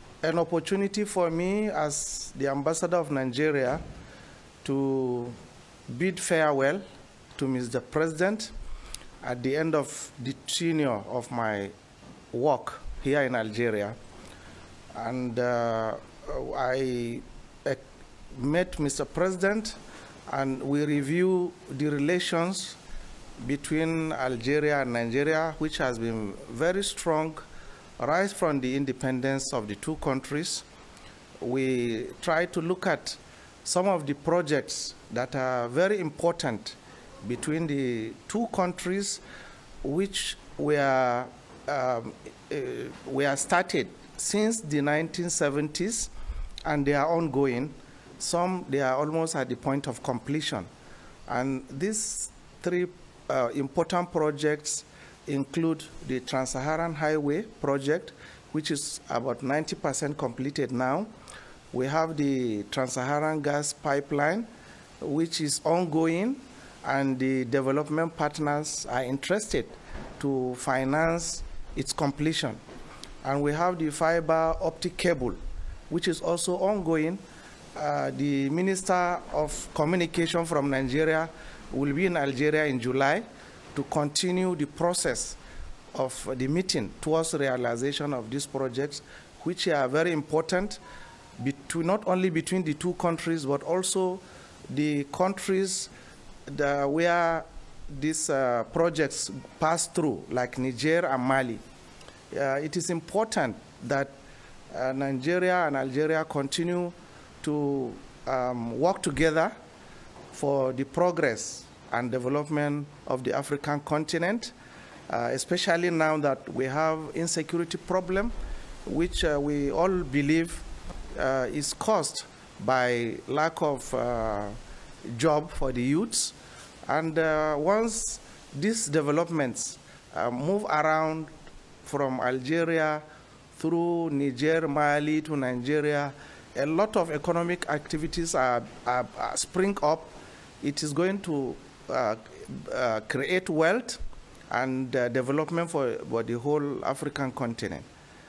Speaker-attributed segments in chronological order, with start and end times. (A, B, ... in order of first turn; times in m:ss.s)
0:00.2-0:03.8 A
0:04.6-0:05.4 A
0:05.9-0:06.8 A
0:07.4-0:08.5 A
0:09.2-0:11.7 A
0:12.3-0:14.0 A
0:14.9-0:17.8 A
0:18.3-0:22.8 A
0:23.4-0:27.4 A
0:28.0-0:30.6 A
0:31.4-0:39.2 A
0:39.8-0:46.1 A
0:46.7-0:50.7 A
0:51.3-1:01.1 A
1:01.7-1:04.5 A
1:05.0-1:12.6 A
1:13.2-1:15.4 A
1:15.9-1:17.2 A
1:17.8-1:25.4 A
1:25.9-1:30.8 A
1:31.4-1:35.9 A
1:36.5-1:41.6 A
1:42.3-1:44.1 A
1:44.7-1:49.5 A
1:50.3-1:54.5 A
1:55.1-1:58.3 A
1:58.8-2:06.4 A
2:06.9-2:11.3 A
2:11.8-2:13.0 A
2:13.6-2:27.9 A